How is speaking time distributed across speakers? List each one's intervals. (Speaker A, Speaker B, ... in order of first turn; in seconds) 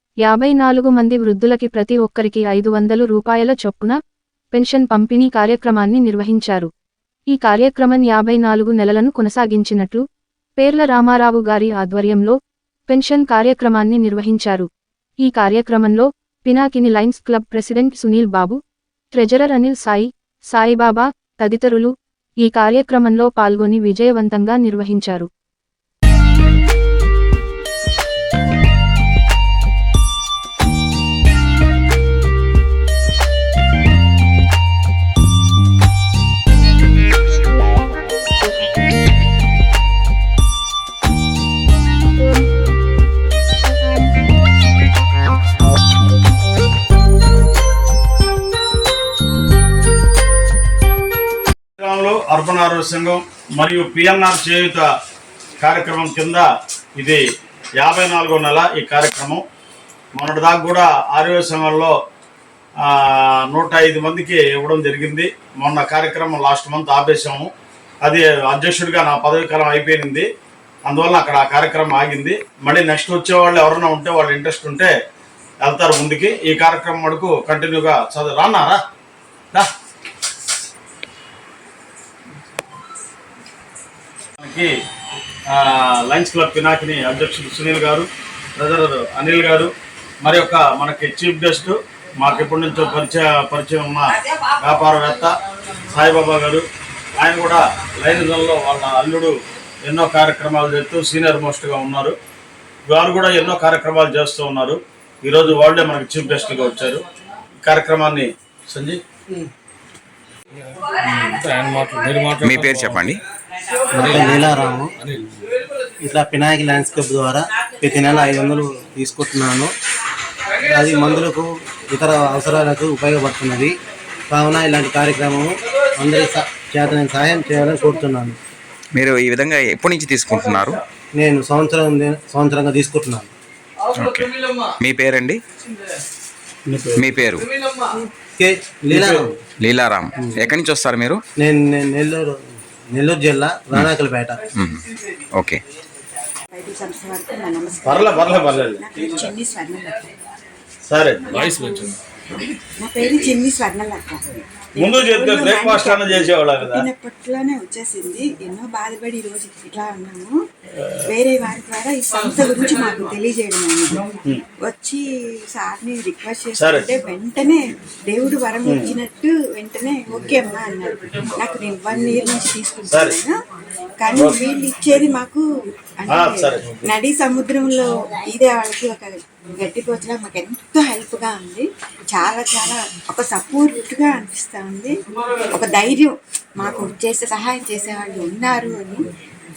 Speaker A: 0.2-4.0, 4.5-6.7, 7.3-10.0, 10.6-12.4, 12.9-14.7, 15.2-18.6, 19.1-25.3
Speaker B: 51.8-54.9, 55.6-56.5, 57.8-59.4, 60.1-61.9, 62.8-67.5, 68.0-70.3, 70.9-74.9, 75.6-78.8, 84.4-84.7, 85.5-95.3, 95.9-96.7, 97.2-102.2, 102.9-107.0, 107.6-109.0, 111.1-112.3, 136.7-137.1, 138.9-139.3, 147.8-148.8, 150.9-151.4, 154.8-156.9, 166.6-166.9, 168.7-168.9, 172.9-173.2, 174.1-174.4, 176.1-176.9
Speaker C: 112.4-113.2, 128.9-130.8, 133.9-135.4, 136.9-137.5, 139.6-141.2, 144.5-144.8
Speaker D: 113.9-115.0, 116.0-119.7, 120.6-123.7, 124.3-128.4, 131.2-133.3, 138.2-139.3, 141.4-144.4
Speaker E: 146.5-150.1, 151.3-151.9, 152.8-160.4, 161.0-164.0, 164.6-173.3, 174.0-175.4, 176.0-184.9, 185.5-189.0